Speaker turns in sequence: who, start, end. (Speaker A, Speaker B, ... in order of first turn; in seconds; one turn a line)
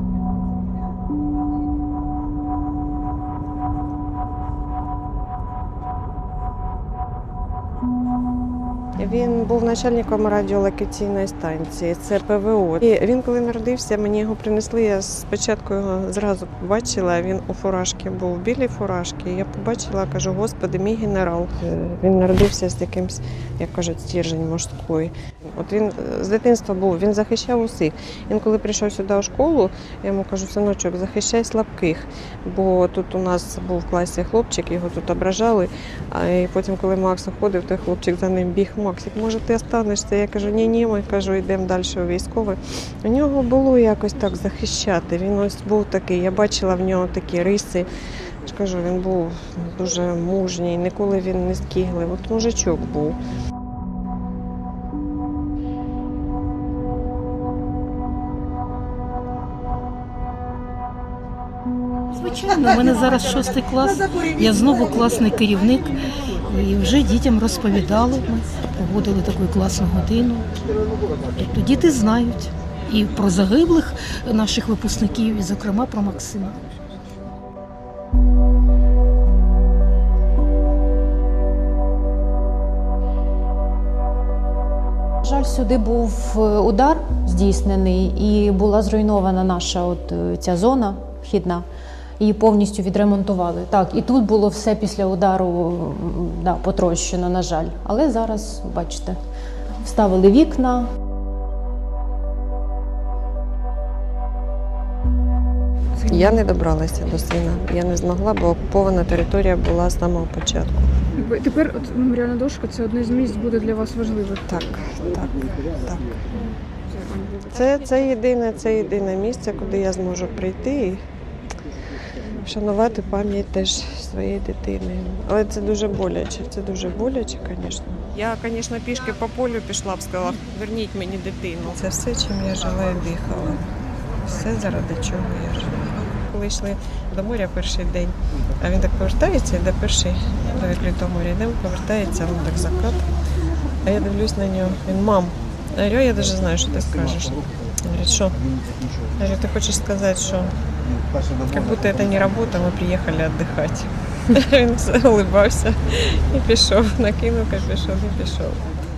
Speaker A: 9.0-47.9
Speaker A: 48.4-53.2
Speaker B: 62.1-70.5
Speaker B: 71.3-76.6
Speaker C: 85.2-91.6
Speaker C: 92.2-99.2
Speaker C: 99.8-100.9
Speaker D: 106.0-106.4
Speaker A: 106.1-110.9
Speaker D: 111.2-114.5
Speaker A: 114.5-116.2
Speaker D: 116.9-117.8
Speaker A: 117.5-121.0
Speaker A: 122.3-133.7
Speaker A: 134.2-143.0
Speaker A: 143.8-148.4
Speaker A: 149.2-150.5
Speaker A: 151.5-158.6